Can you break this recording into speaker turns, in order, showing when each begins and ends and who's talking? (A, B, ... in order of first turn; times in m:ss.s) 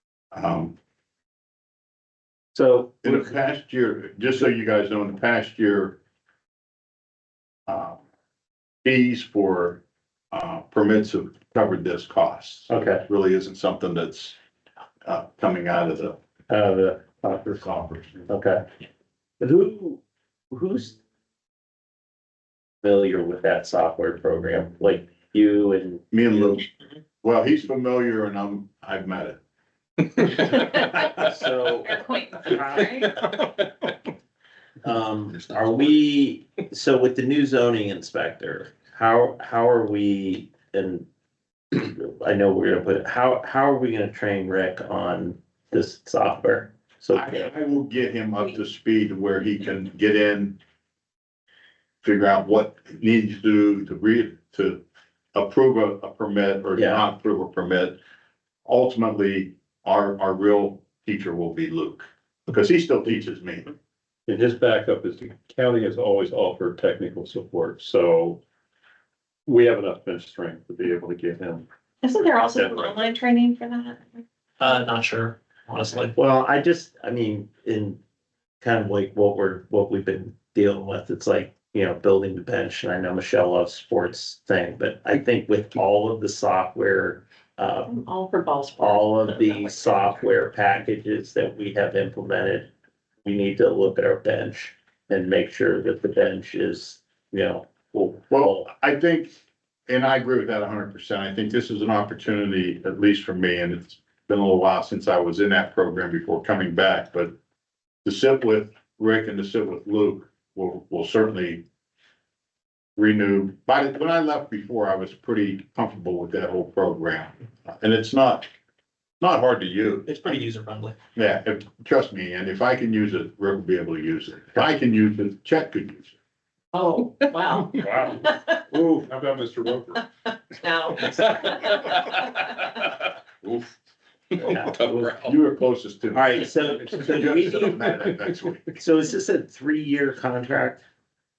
0:00.3-0:00.8 A
0:02.5-0:03.4 B
0:03.0-0:06.0 A
0:07.7-0:08.0 A
0:08.8-0:14.4 A
0:12.7-0:13.0 B
0:15.0-0:16.2 A
0:16.5-0:17.5 B
0:17.3-0:18.3 A
0:18.3-0:18.6 B
0:19.4-0:21.0 B
0:22.8-0:26.2 B
0:26.1-0:26.7 A
0:27.2-0:29.4 A
0:30.2-0:30.8 A
0:31.1-0:33.4 B
0:31.8-0:33.1 C
0:34.8-0:41.1 B
0:41.7-0:47.5 B
0:47.1-0:50.6 A
0:52.0-0:54.8 A
0:55.3-0:58.0 A
0:56.8-0:57.1 B
0:58.6-1:03.7 A
1:04.3-1:08.4 D
1:09.4-1:11.6 D
1:12.0-1:14.2 C
1:12.5-1:13.1 D
1:14.6-1:16.2 E
1:16.2-1:18.0 B
1:18.6-1:27.9 B
1:27.9-1:30.2 C
1:28.8-1:32.7 B
1:33.2-1:38.7 B
1:38.3-1:47.3 A
1:48.0-1:51.6 A
1:53.0-1:58.5 A
1:59.2-2:00.4 A
2:00.0-2:01.0 E
2:01.1-2:06.2 A
2:06.7-2:08.6 C
2:07.7-2:10.0 D
2:08.7-2:09.1 B
2:10.6-2:12.6 C
2:11.2-2:12.0 D
2:14.4-2:15.2 B
2:14.5-2:18.8 A
2:16.1-2:17.9 B
2:18.7-2:20.8 B